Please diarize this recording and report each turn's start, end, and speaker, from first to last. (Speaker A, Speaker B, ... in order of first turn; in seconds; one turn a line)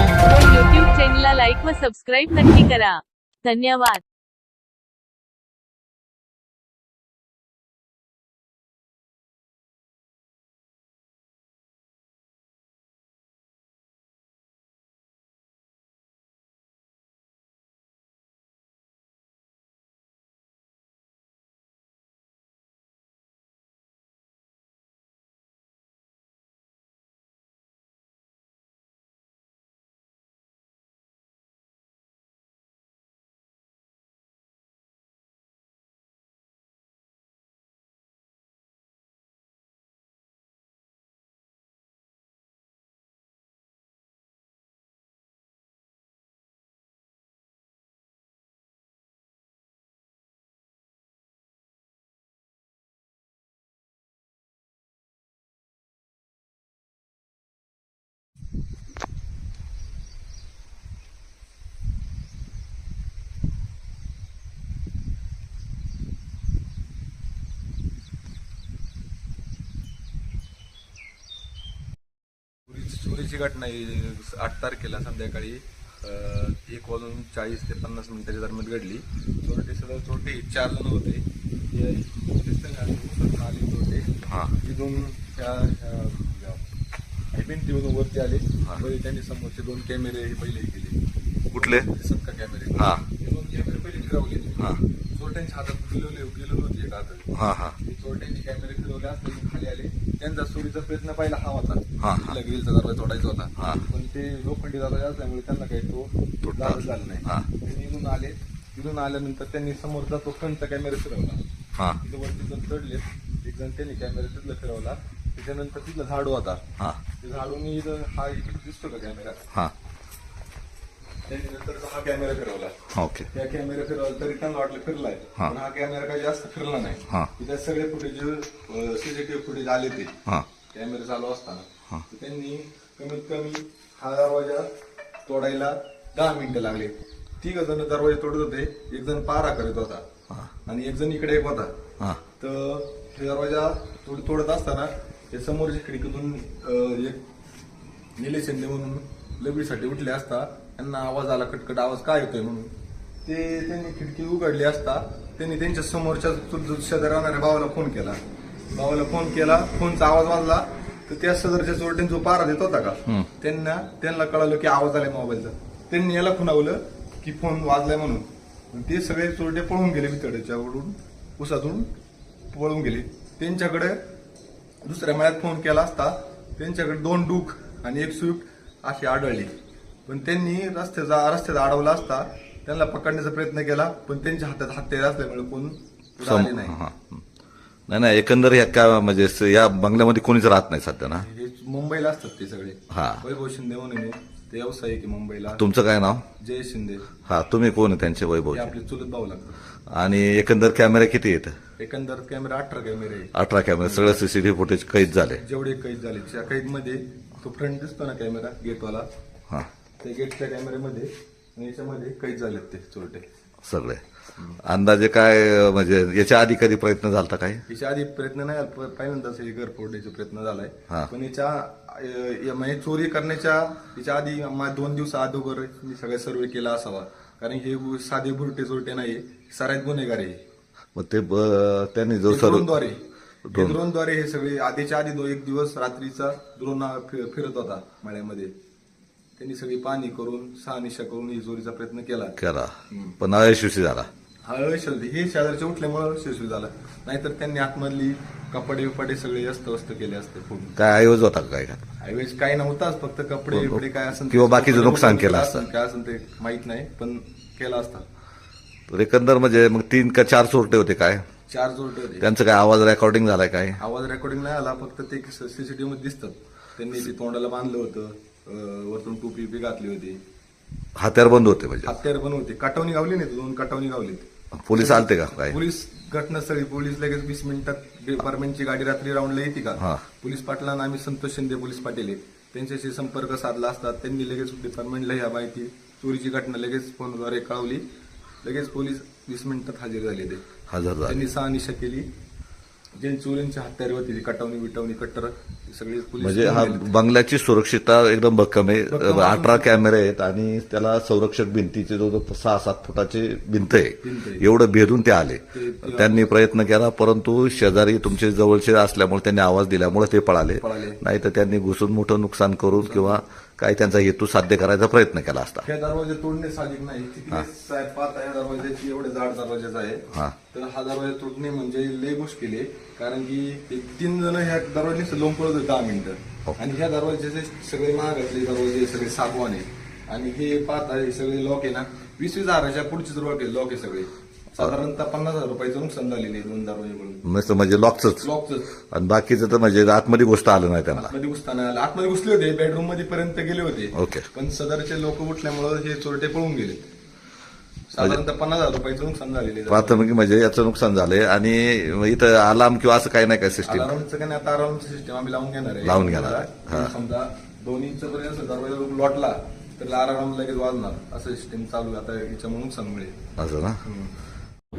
Speaker A: 0.2-4.0
Speaker B: 72.7-86.7
Speaker C: 84.3-84.5
Speaker B: 87.3-91.0
Speaker C: 91.5-91.9
Speaker B: 91.5-111.4
Speaker C: 92.8-93.0
Speaker C: 97.3-97.8
Speaker C: 102.0-102.3
Speaker C: 103.6-103.8
Speaker C: 106.4-107.5
Speaker B: 112.0-116.6
Speaker B: 117.2-119.4
Speaker B: 121.3-122.8
Speaker C: 122.9-123.3
Speaker B: 123.3-130.2
Speaker B: 130.7-134.7
Speaker B: 135.2-140.0
Speaker B: 140.7-141.7
Speaker B: 142.4-147.3
Speaker B: 148.2-158.2
Speaker B: 158.7-171.9
Speaker B: 172.5-174.0
Speaker B: 174.8-179.5
Speaker B: 180.1-186.8
Speaker C: 186.2-187.2
Speaker C: 187.9-191.2
Speaker B: 191.2-195.7
Speaker C: 192.9-193.2
Speaker C: 195.5-196.2
Speaker B: 196.4-197.1
Speaker C: 197.2-198.7
Speaker B: 198.5-199.6
Speaker C: 199.9-201.6
Speaker B: 201.8-203.3
Speaker C: 203.3-205.4
Speaker B: 203.8-204.2
Speaker B: 205.4-209.1
Speaker B: 210.0-213.2
Speaker C: 213.6-214.0
Speaker C: 214.6-217.6
Speaker B: 217.7-230.4
Speaker C: 230.9-232.7
Speaker B: 232.3-238.5
Speaker C: 233.4-233.8
Speaker B: 239.4-242.4
Speaker C: 242.4-244.1
Speaker B: 242.9-243.2
Speaker B: 244.4-250.8
Speaker C: 250.8-251.9
Speaker B: 252.0-258.0
Speaker C: 253.5-255.7
Speaker C: 258.9-261.2
Speaker B: 261.5-262.3
Speaker C: 262.2-263.8
Speaker B: 263.8-270.2
Speaker C: 270.9-271.9
Speaker B: 271.8-287.8
Speaker C: 274.5-275.6
Speaker C: 279.8-280.0
Speaker B: 288.4-290.4
Speaker C: 290.7-291.2
Speaker B: 291.0-292.1
Speaker B: 293.0-296.9
Speaker C: 296.2-315.6
Speaker B: 298.9-299.7
Speaker B: 304.0-304.5
Speaker B: 305.5-306.2
Speaker B: 310.6-311.0
Speaker B: 312.7-313.2
Speaker B: 315.6-337.2
Speaker C: 337.2-338.3
Speaker B: 338.2-338.7
Speaker C: 338.9-341.1
Speaker B: 341.0-346.8
Speaker C: 343.9-344.3
Speaker B: 347.9-350.1
Speaker C: 349.7-353.9
Speaker B: 353.6-363.2
Speaker C: 355.8-356.9
Speaker C: 363.4-363.8
Speaker B: 363.8-364.1